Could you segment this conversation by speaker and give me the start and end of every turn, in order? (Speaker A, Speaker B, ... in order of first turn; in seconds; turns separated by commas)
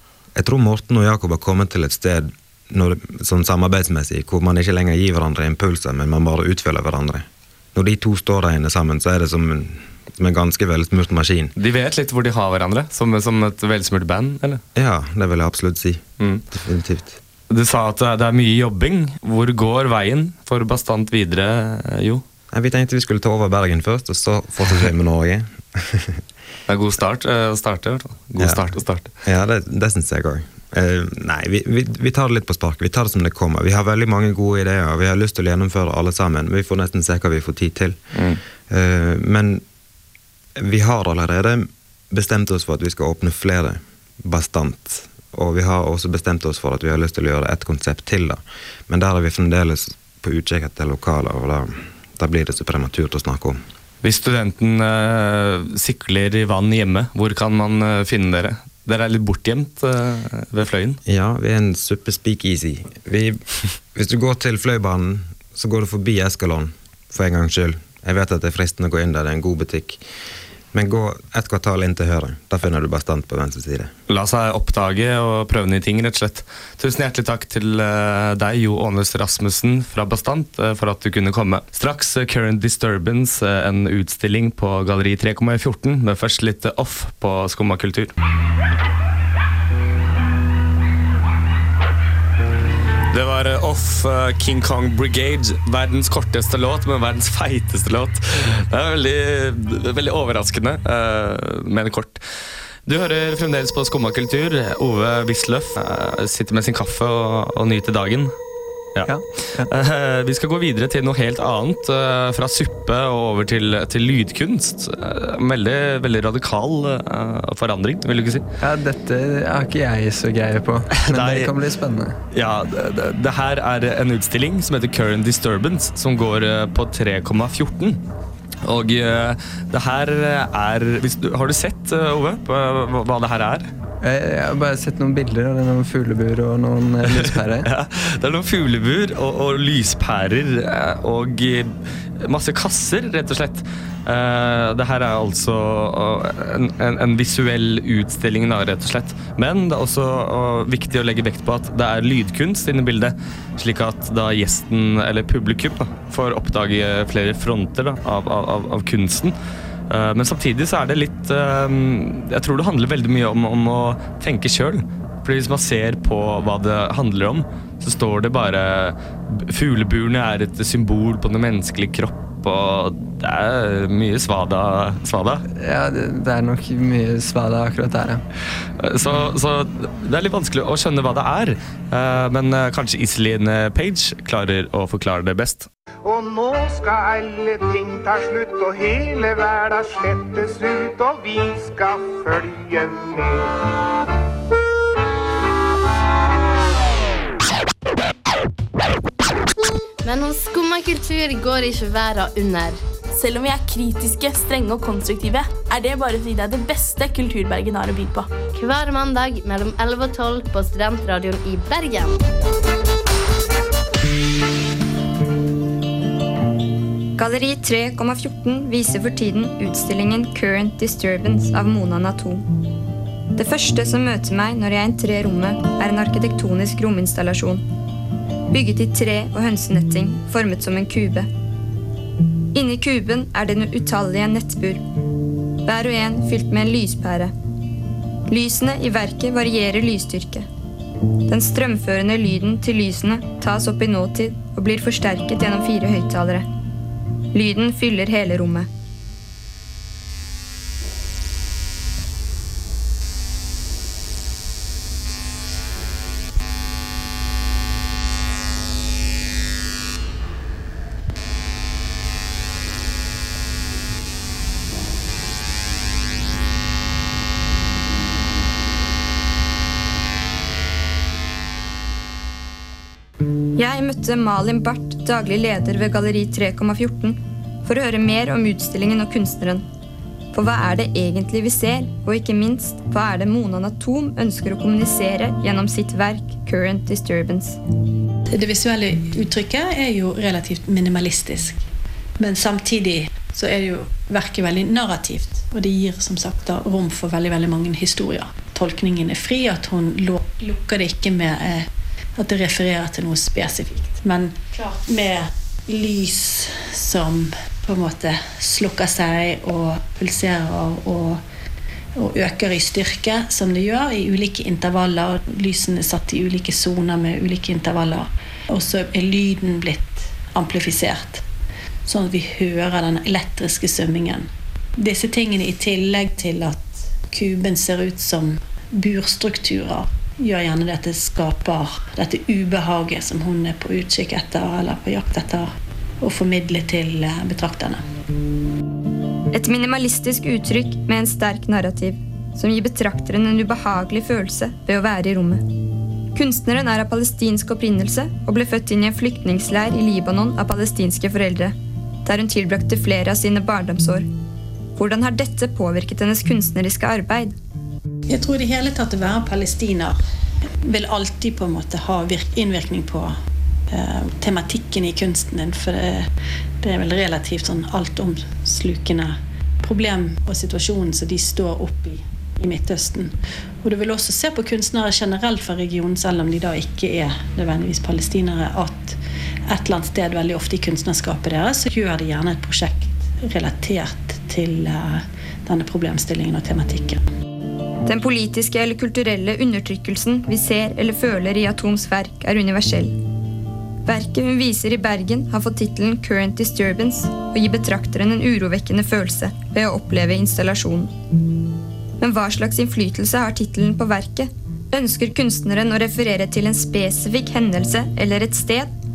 Speaker A: 0.3-11.5, Speaker B: 11.6-14.6, Speaker A: 14.8-17.2, Speaker B: 16.2-16.4, Speaker B: 17.5-22.2, Speaker A: 22.5-26.2, Speaker B: 26.7-29.1, Speaker A: 28.4-38.0, Speaker B: 38.1-38.4, Speaker A: 38.7-39.6, Speaker A: 40.6-53.6, Speaker B: 54.0-61.0, Speaker A: 61.0-70.0, Speaker A: 70.7-73.9, Speaker B: 74.1-88.1, Speaker B: 93.1-102.2, Speaker B: 102.9-108.4, Speaker C: 109.1-109.7, Speaker B: 109.7-118.5, Speaker C: 118.6-122.2, Speaker B: 121.0-121.5, Speaker B: 122.3-128.0, Speaker B: 128.6-133.7, Speaker C: 134.0-137.7, Speaker B: 137.1-159.3, Speaker B: 159.9-175.4, Speaker C: 175.6-178.2, Speaker B: 178.8-185.7, Speaker D: 186.0-193.6, Speaker E: 200.0-202.8, Speaker F: 203.1-208.3, Speaker E: 208.4-212.2, Speaker G: 217.2-222.4, Speaker G: 223.4-227.7, Speaker G: 228.5-231.3, Speaker G: 232.5-234.8, Speaker G: 235.7-237.3, Speaker G: 238.3-240.5, Speaker G: 241.3-246.5, Speaker G: 247.3-248.7, Speaker G: 273.6-279.6, Speaker G: 280.3-287.6, Speaker H: 288.3-291.6, Speaker H: 292.2-311.2, Speaker H: 312.0-321.2, Speaker H: 321.9-337.8, Speaker G: 339.3-345.4, Speaker G: 346.1-351.5, Speaker G: 352.1-354.1, Speaker G: 354.8-357.4, Speaker H: 358.1-360.0, Speaker H: 360.6-363.1, Speaker H: 363.7-366.1, Speaker H: 366.6-387.0, Speaker G: 387.9-392.9, Speaker G: 393.9-400.9, Speaker G: 402.0-408.7